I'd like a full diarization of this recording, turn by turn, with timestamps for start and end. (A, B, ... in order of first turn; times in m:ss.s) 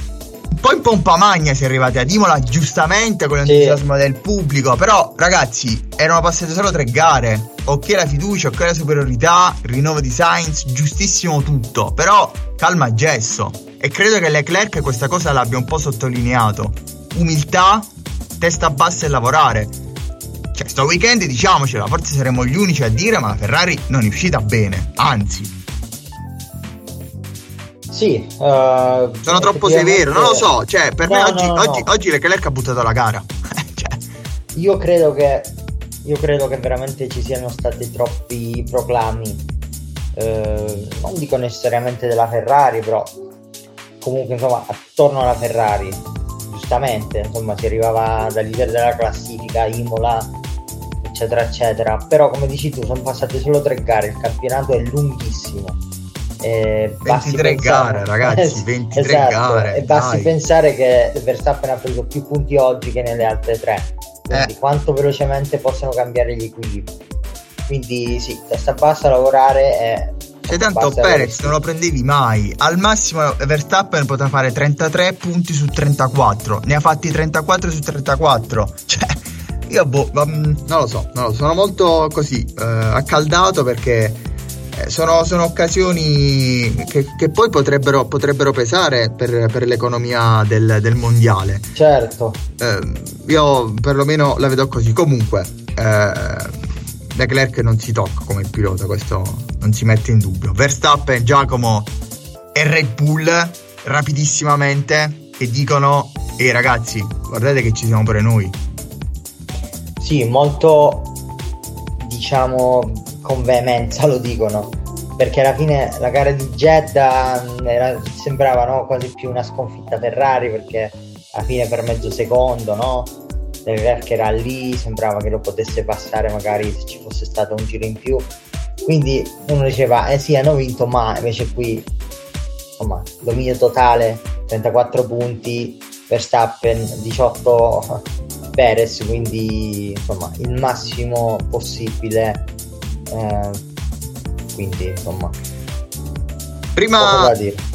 0:00.5-0:19.8 A
0:03.4-0:03.8 B
0:20.5-0:25.6 A
0:27.9-0:30.5 B
0:29.3-0:34.0 A
0:31.0-0:31.9 B
0:34.5-0:39.4 B
0:40.2-0:43.2 B
0:44.0-0:50.3 B
0:51.0-0:55.8 B
0:56.4-1:06.9 B
0:57.0-1:00.3 A
1:07.7-1:11.6 B
1:10.5-1:24.2 A
1:24.7-1:31.8 A
1:31.8-1:32.4 B
1:32.6-1:36.6 A
1:37.1-1:41.9 A
1:42.5-1:48.6 A
1:50.0-1:51.2 B
1:52.0-2:03.2 B
2:03.7-2:08.3 B
2:08.8-2:11.9 B
2:12.8-2:18.0 B
2:18.6-2:22.5 B
2:23.1-2:23.7 B
2:24.5-2:25.4 B
2:26.8-2:27.4 A
2:27.0-2:27.6 B